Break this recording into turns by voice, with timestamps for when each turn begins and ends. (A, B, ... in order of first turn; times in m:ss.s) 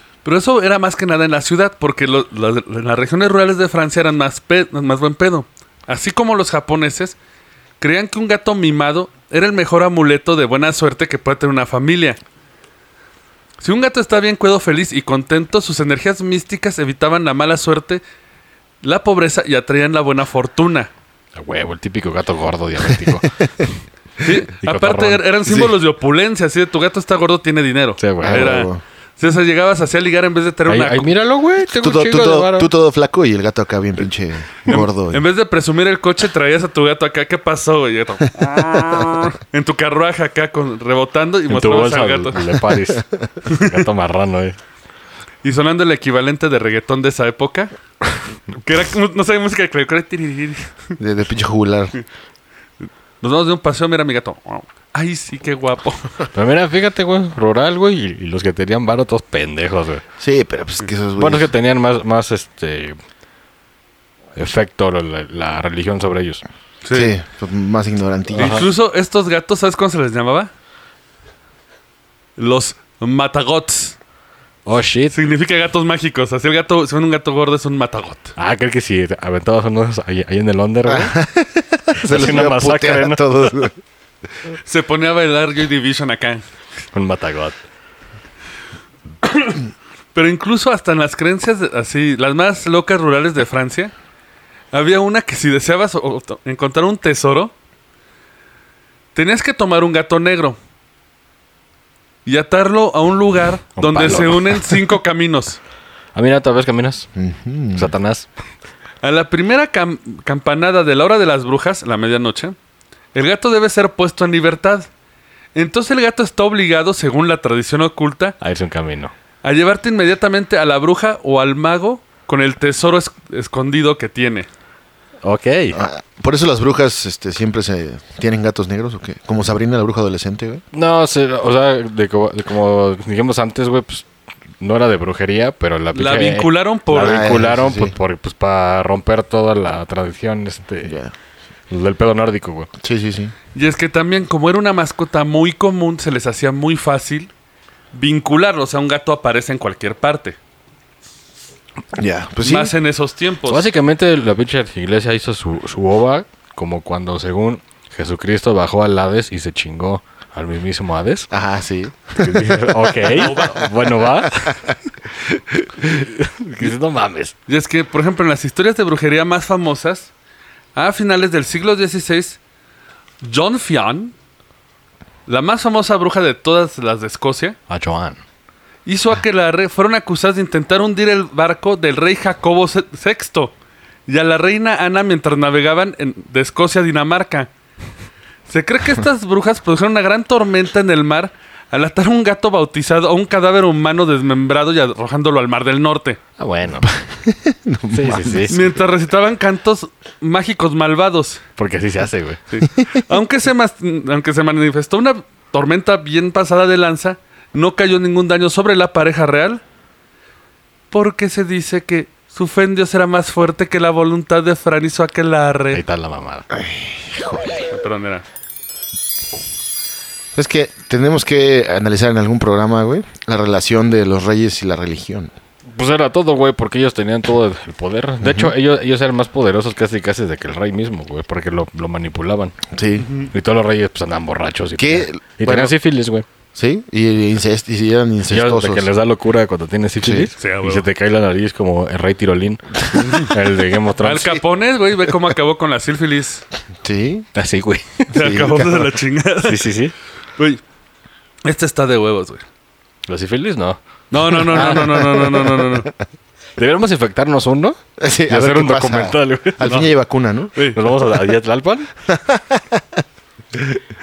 0:00.2-0:07.2 A
0:07.8-0:12.2 A
0:13.6-0:18.0 A
0:18.8-0:20.9 A
0:21.3-0:23.3 B
0:24.2-0:31.1 A
0:24.5-0:25.2 B
0:25.4-0:25.8 C
0:28.0-0:28.6 B
0:28.2-0:28.8 C
0:30.7-0:32.7 B
0:31.7-0:35.2 C
0:34.6-0:42.4 A
0:41.5-0:44.6 B
0:43.5-0:43.8 A
0:45.4-0:47.7 A
0:48.6-0:50.9 A
0:51.0-0:51.9 C
0:52.8-0:56.1 A
0:56.3-1:00.0 B
1:00.2-1:01.5 C
1:01.2-1:03.0 B
1:04.3-1:06.4 B
1:06.8-1:07.1 A
1:06.9-1:08.7 C
1:08.3-1:08.7 B
1:08.4-1:10.5 A
1:12.4-1:14.0 A
1:14.6-1:15.1 B
1:15.1-1:18.3 A
1:18.4-1:21.2 B
1:20.8-1:23.7 C
1:22.0-1:23.5 B
1:24.6-1:26.4 A
1:26.9-1:27.6 B
1:29.2-1:29.6 A
1:30.1-1:33.9 A
1:34.7-1:37.5 A
1:39.1-1:40.6 A
1:42.2-1:45.6 A
1:43.8-1:44.8 B
1:46.1-1:47.1 B
1:47.2-1:47.9 C
1:47.7-1:48.3 B
1:49.0-1:52.6 A
1:53.1-1:54.9 A
1:55.5-1:58.4 A
1:58.4-1:59.1 B
1:59.4-2:04.5 A
2:05.2-2:05.8 B
2:05.7-2:10.6 C
2:10.7-2:14.1 B
2:14.6-2:20.9 B
2:15.9-2:17.3 A
2:16.9-2:17.9 C
2:20.8-2:21.1 C
2:21.7-2:22.7 B
2:22.8-2:23.3 C
2:23.5-2:27.3 A
2:27.9-2:30.4 A
2:32.0-2:32.7 C
2:32.4-2:33.6 A
2:33.5-2:41.3 B
2:41.3-2:43.3 C
2:42.2-2:44.7 B
2:43.1-2:43.7 A
2:44.2-2:44.6 C
2:45.8-2:47.3 B
2:47.5-2:50.1 A
2:50.7-2:52.4 A
2:53.2-2:54.1 A
2:55.3-2:57.6 A
2:57.7-2:58.2 B
2:58.8-3:03.5 A
3:04.1-3:07.5 A
3:08.5-3:16.2 A
3:16.4-3:16.9 B
3:16.8-3:18.5 C
3:17.9-3:18.7 B
3:18.5-3:21.4 A
3:21.6-3:22.4 B
3:22.5-3:29.6 A
3:30.9-3:35.8 A
3:35.7-3:36.4 B
3:37.6-3:38.2 A
3:40.3-3:45.3 C
3:45.7-3:52.6 B
3:48.2-3:48.5 C
3:52.7-3:53.1 C
3:53.0-3:53.3 A
3:53.2-3:56.2 B
3:54.8-3:55.7 C
3:56.5-3:58.8 C
3:58.3-4:04.4 B
4:00.0-4:00.3 C
4:00.4-4:00.8 A
4:03.0-4:03.3 A
4:04.0-4:06.4 A
4:06.8-4:07.3 C
4:07.3-4:08.4 B
4:08.1-4:09.6 A
4:08.2-4:08.9 C
4:09.4-4:09.9 B
4:10.4-4:10.6 A
4:11.4-4:12.4 A
4:13.1-4:15.2 B
4:14.1-4:15.9 A
4:14.5-4:15.8 C
4:16.6-4:20.0 B
4:18.0-4:20.6 C
4:20.5-4:20.8 A
4:20.7-4:21.9 B
4:22.1-4:23.0 C
4:23.5-4:23.8 C